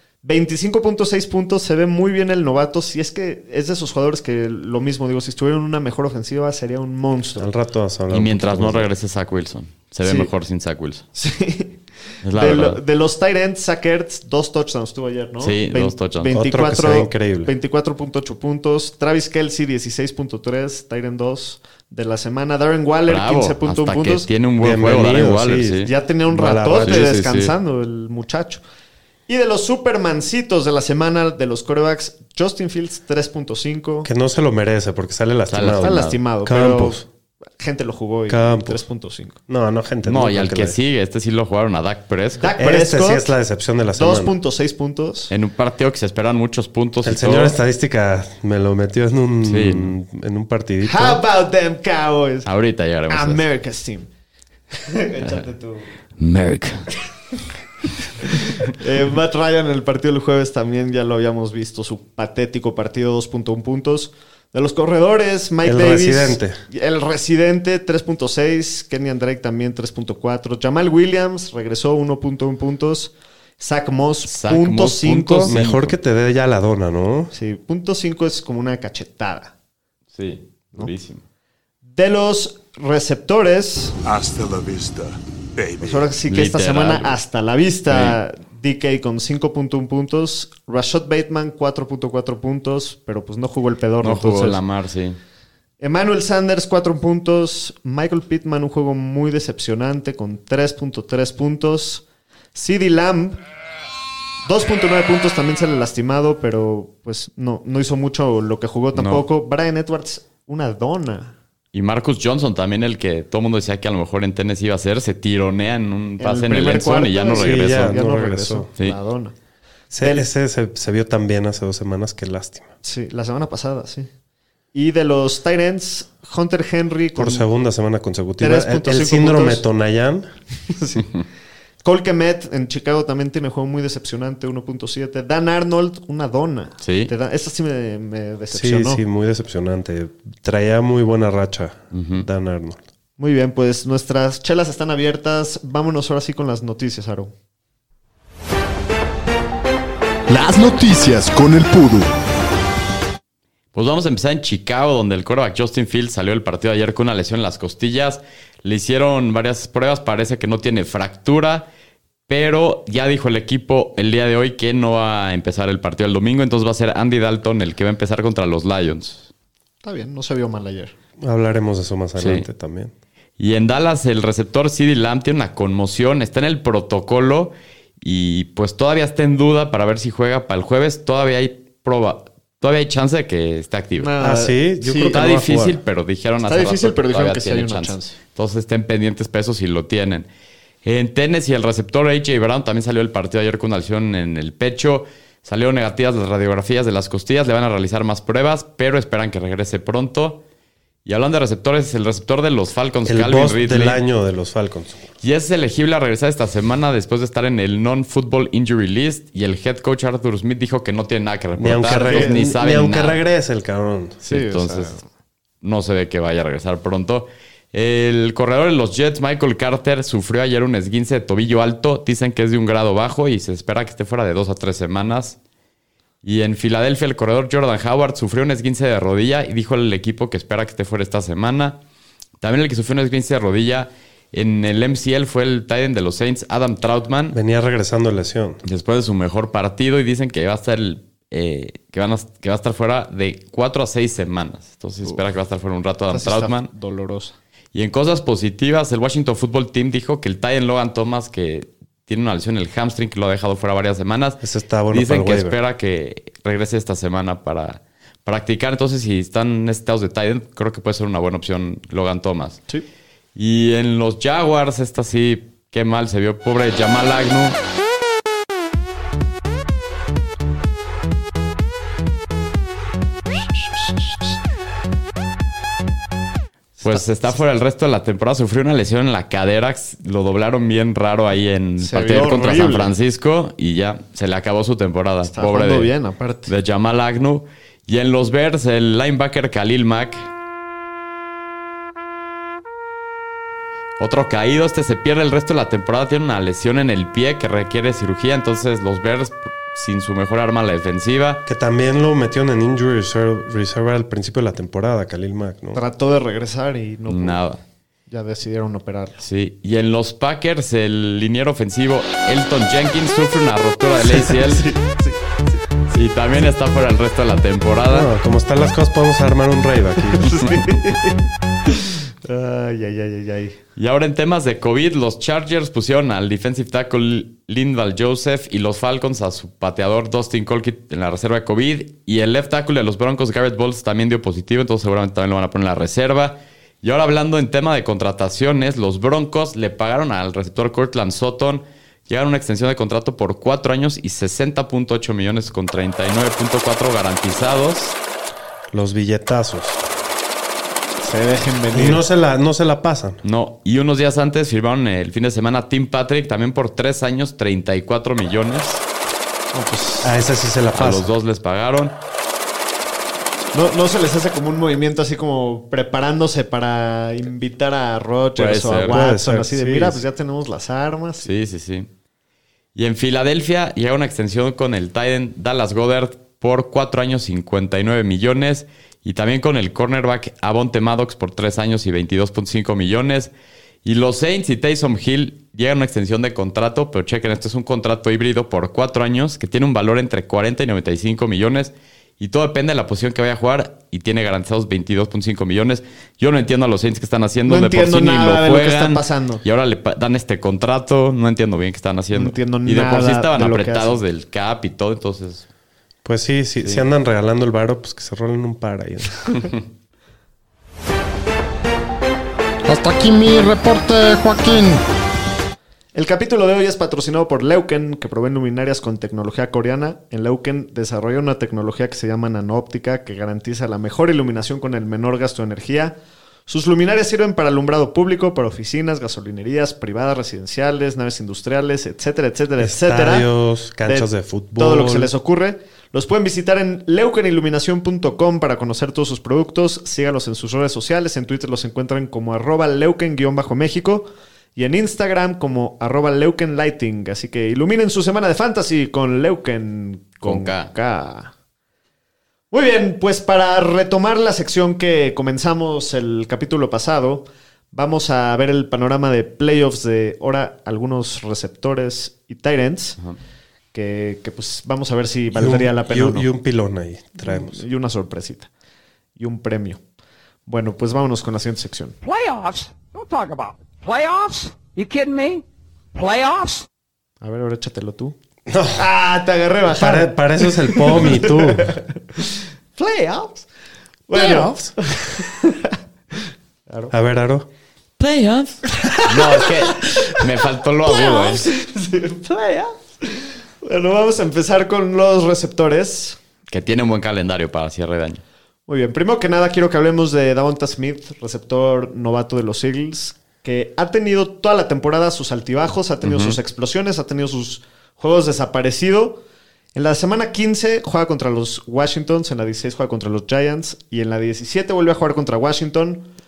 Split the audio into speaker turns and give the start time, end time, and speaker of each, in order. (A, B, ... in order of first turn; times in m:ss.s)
0:00.2-0:07.5 A
0:07.4-0:08.9 B
0:08.1-0:11.0 C
0:10.0-0:10.3 A
0:11.2-0:11.8 A
0:12.2-0:12.8 C
0:12.3-0:24.3 A
0:15.4-0:16.3 C
0:16.3-0:17.5 B
0:23.1-0:25.9 C
0:24.6-0:27.0 B
0:25.8-0:28.6 A
0:26.8-0:27.5 C
0:29.3-0:34.1 A
0:34.0-0:37.1 B
0:35.5-0:36.2 C
0:35.8-0:37.0 A
0:37.6-0:39.4 A
0:38.3-0:38.8 B
0:39.5-0:40.8 B
0:40.0-0:42.5 C
0:42.4-0:43.3 A
0:42.6-0:44.4 B
0:44.0-0:45.3 A
0:45.3-0:47.6 C
0:47.0-0:51.2 B
0:49.5-0:49.9 C
0:50.8-0:52.5 A
0:52.4-0:53.4 C
0:53.1-0:54.1 A
0:54.7-0:55.9 A
0:56.2-0:56.9 C
0:58.2-1:15.5 A
1:05.6-1:06.6 B
1:14.3-1:16.0 C
1:15.3-1:17.3 B
1:17.3-1:19.5 A
1:20.1-1:21.2 C
1:21.9-1:23.9 A
1:24.0-1:26.0 D
1:25.8-1:34.6 A
1:26.3-1:27.2 C
1:27.9-1:28.2 C
1:34.0-1:35.2 C
1:35.8-1:43.4 A
1:44.4-1:51.4 A
1:49.0-1:49.2 C
1:51.7-1:58.0 C
1:56.2-1:59.3 A
1:57.4-1:58.7 B
1:59.9-2:02.7 B
2:00.0-2:00.3 A
2:02.8-2:04.1 A
2:04.7-2:07.5 A
2:07.2-2:10.3 B
2:08.4-2:09.6 A
2:10.7-2:11.1 A
2:11.8-2:19.0 A
2:16.8-2:17.1 C
2:18.5-2:22.8 B
2:21.9-2:22.3 C
2:23.2-2:27.3 A
2:30.3-2:32.2 D
2:33.7-2:41.7 C
2:42.3-2:49.3 C
2:49.8-2:50.9 A
2:51.2-2:52.9 B
2:52.2-2:52.5 C
2:53.4-3:04.1 C
3:04.0-3:05.2 A
3:04.2-3:05.8 B
3:05.1-3:10.3 C
3:06.4-3:08.2 A
3:10.8-3:20.4 C
3:21.0-3:24.0 C
3:23.0-3:25.1 B
3:25.2-3:33.2 C
3:31.6-3:34.2 B
3:32.0-3:32.4 A
3:34.2-3:35.0 C
3:34.2-3:35.0 A
3:35.6-3:45.4 C
3:46.2-3:51.8 C
3:52.4-3:57.4 C
3:57.3-3:58.6 B
3:58.6-4:06.7 C
4:06.1-4:07.4 A
4:07.7-4:22.6 C
4:14.4-4:15.6 B
4:23.4-4:27.6 C
4:36.8-4:45.9 C
4:41.8-4:42.9 A
4:45.3-4:46.5 A
4:46.5-4:50.3 C
4:54.0-5:01.4 C
5:01.5-5:05.8 B
5:05.7-5:07.4 A
5:07.1-5:07.6 C
5:08.1-5:09.2 A
5:09.2-5:14.7 C
5:14.3-5:15.2 A
5:15.9-5:18.1 C
5:17.9-5:20.5 B
5:20.1-5:23.6 A
5:23.8-5:48.0 C
5:48.7-5:49.8 B
5:51.0-5:52.0 A
5:51.7-5:53.2 B
5:53.2-5:58.8 C
5:59.5-6:00.2 A
6:00.0-6:01.1 B
6:00.7-6:02.0 C
6:03.5-6:11.3 A
6:08.4-6:09.0 C
6:08.9-6:10.0 B
6:11.2-6:11.9 C
6:12.8-6:23.3 C
6:23.8-6:45.4 C
6:37.5-6:39.4 A
6:42.1-6:44.0 A
6:46.0-6:49.5 B
6:52.7-6:54.8 E
6:55.9-7:13.3 A
7:12.6-7:15.1 B
7:13.9-7:31.3 A
7:30.2-7:30.7 C
7:32.5-7:43.0 A
7:43.7-7:46.3 A
7:45.4-7:47.6 B
7:47.2-7:48.5 A
7:49.2-7:49.8 A
7:50.5-7:52.0 A
7:52.0-7:56.7 E
7:57.2-7:58.2 A
7:58.5-7:58.8 B
7:58.7-8:03.5 A
7:59.7-8:01.8 B
8:04.1-8:05.8 A
8:04.2-8:04.5 E
8:06.7-8:06.9 A
8:06.9-8:07.5 B
8:08.0-8:11.4 C
8:08.8-8:10.3 A
8:10.8-8:16.2 A
8:16.5-8:18.2 C
8:18.7-8:29.2 A
8:26.0-8:26.4 C
8:29.8-8:36.1 A